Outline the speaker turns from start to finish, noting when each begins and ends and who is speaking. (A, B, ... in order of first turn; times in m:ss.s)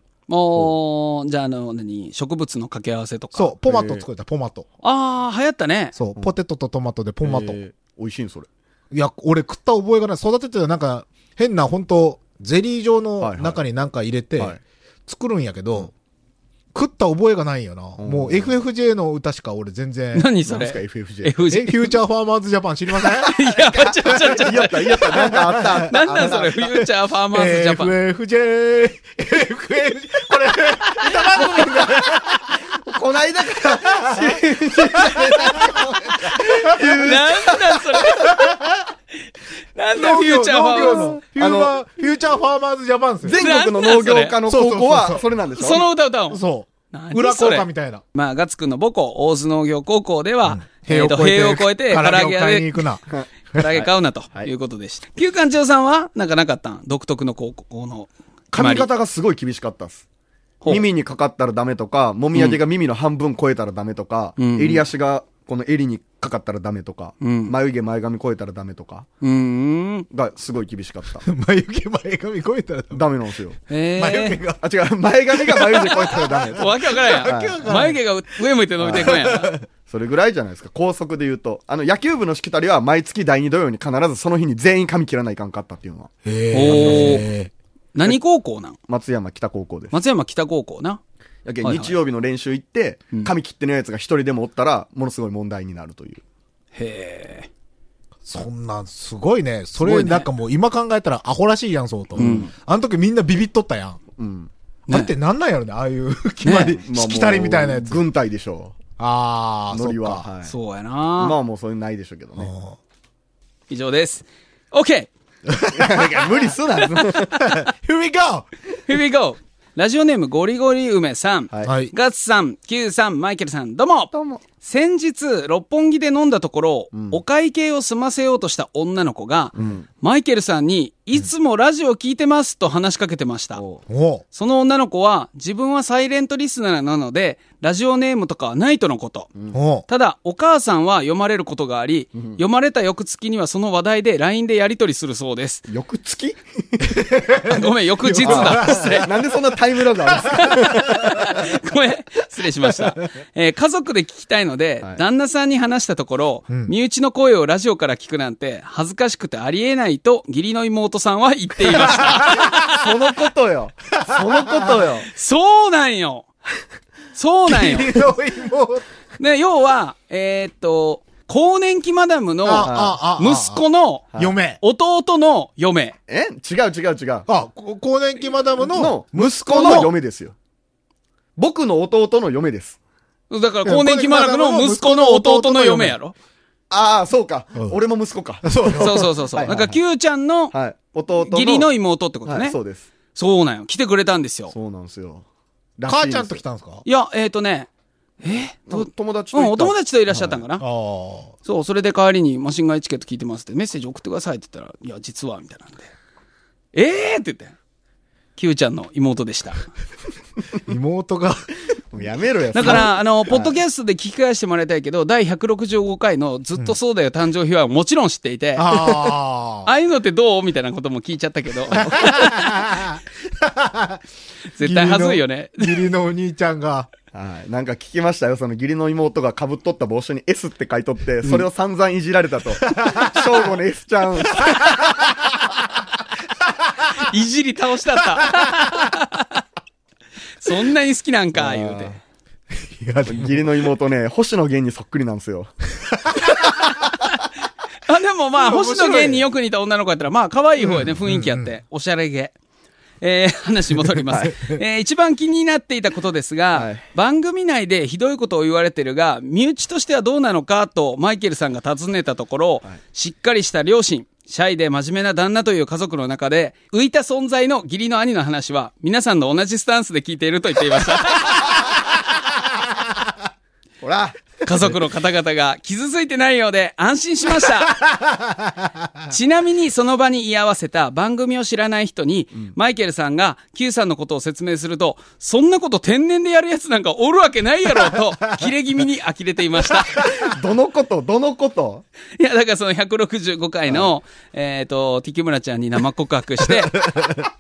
0:00.3-0:03.6 A
0:03.3-0:04.7 B
0:03.7-0:04.0 C
0:04.8-0:05.9 A
0:05.9-0:07.6 B
0:07.2-0:08.5 C
0:08.9-0:15.9 B
0:13.2-0:13.6 C
0:16.7-0:20.3 B
0:18.0-0:18.6 C
0:20.1-0:22.0 A
0:20.5-0:21.3 C
0:21.5-0:32.7 B
0:23.0-0:25.3 A
0:23.7-0:26.6 C
0:25.8-0:27.9 A
0:31.4-0:32.0 C
0:32.8-0:38.4 C
0:33.6-0:37.2 B
0:36.6-0:38.6 A
0:38.2-0:38.8 B
0:39.7-0:41.2 A
0:39.9-0:43.4 B
0:40.8-0:41.7 C
0:43.2-0:45.8 C
0:43.4-0:44.4 A
0:44.5-0:45.3 B
0:45.6-0:52.8 A
0:46.3-0:48.0 B
0:50.4-0:53.6 B
0:53.1-0:54.5 C
0:53.6-0:58.9 A
0:58.5-1:00.0 C
1:00.6-1:09.1 C
1:04.4-1:04.8 A
1:07.2-1:07.5 A
1:09.2-1:10.1 A
1:10.1-1:11.2 C
1:11.2-1:13.1 B
1:12.9-1:13.6 C
1:13.7-1:14.4 A
1:14.0-1:14.6 B
1:14.6-1:17.7 C
1:15.3-1:18.0 B
1:16.5-1:19.5 A
1:18.8-1:19.2 C
1:18.9-1:19.6 B
1:19.8-1:27.2 C
1:26.2-1:27.5 B
1:26.5-1:27.3 A
1:27.9-1:28.8 A
1:28.9-1:29.9 C
1:29.9-1:31.0 A
1:31.4-1:36.2 C
1:31.6-1:32.0 A
1:36.7-1:37.5 A
1:38.2-1:44.0 B
1:39.8-1:40.3 A
1:42.2-1:42.5 C
1:42.2-1:42.5 A
1:44.2-1:44.5 C
1:44.9-1:48.0 B
1:46.4-1:46.8 A
1:46.8-1:48.8 C
1:49.0-1:50.2 B
1:49.7-1:50.5 C
1:50.4-1:51.4 A
1:51.2-1:52.5 C
1:52.4-1:52.8 B
1:53.7-1:55.1 A
1:55.5-1:56.4 B
1:55.7-1:57.5 C
1:56.9-1:57.5 A
1:57.4-1:58.5 B
1:58.8-2:13.6 A
2:01.6-2:01.9 B
2:04.1-2:04.4 C
2:06.9-2:07.2 C
2:09.5-2:09.8 C
2:13.6-2:13.8 C
2:13.9-2:14.2 B
2:14.3-2:19.3 A
2:19.5-2:19.8 B
2:19.9-2:25.6 A
2:22.2-2:22.4 C
2:25.7-2:27.0 C
2:26.8-2:29.5 B
2:27.4-2:29.1 A
2:28.2-2:31.3 C
2:30.0-2:31.2 B
2:30.2-2:42.9 A
2:41.7-2:42.8 B
2:42.5-2:45.1 C
2:43.9-2:44.8 B
2:45.1-2:46.2 A
2:47.1-2:48.0 A
2:47.5-2:48.8 B
2:49.2-2:54.0 A
2:52.4-2:53.6 B
2:52.6-2:53.0 C
2:54.2-2:54.6 B
2:54.6-2:56.0 A
2:56.1-2:57.3 C
2:57.3-2:59.9 B
2:58.6-3:00.3 C
2:59.5-2:59.9 A
3:01.4-3:02.8 C
3:03.3-3:06.1 A
3:03.6-3:06.0 B
3:06.7-3:09.8 C
3:08.4-3:09.1 B
3:08.7-3:10.5 A
3:10.5-3:11.7 C
3:11.1-3:12.6 A
3:12.2-3:12.9 C
3:13.1-3:14.5 A
3:14.5-3:15.2 C
3:15.8-3:16.4 C
3:15.9-3:16.8 B
3:16.8-3:17.7 A
3:18.2-3:20.6 A
3:18.7-3:20.4 C
3:20.6-3:21.4 B
3:21.4-3:25.9 A
3:26.7-3:27.5 A
3:28.4-3:29.7 A
3:30.6-3:31.5 B
3:31.9-3:33.5 C
3:32.5-3:38.9 A
3:32.6-3:32.9 B
3:38.6-3:39.7 B
3:39.6-3:42.5 A
3:41.8-3:44.0 B
3:44.5-3:45.8 A
3:44.6-3:46.9 B
3:47.1-3:54.9 C
3:52.6-3:53.5 B
3:54.3-3:55.5 B
3:56.4-3:56.9 B
3:56.9-3:59.4 A
3:58.2-3:58.9 B
4:00.4-4:02.0 A
4:01.3-4:02.0 C
4:02.5-4:03.6 B
4:03.0-4:05.5 C
4:05.9-4:06.6 B
4:06.3-4:07.1 A
4:07.8-4:12.3 A
4:08.4-4:09.2 B
4:10.6-4:11.5 B
4:13.0-4:31.7 A
4:16.5-4:16.8 C
4:32.5-4:33.0 B
4:33.8-4:34.6 C
4:34.4-4:37.8 A
4:37.7-4:38.9 B
4:39.1-4:50.1 A
4:50.0-4:51.8 C
4:52.2-4:57.0 A
4:56.7-4:57.3 B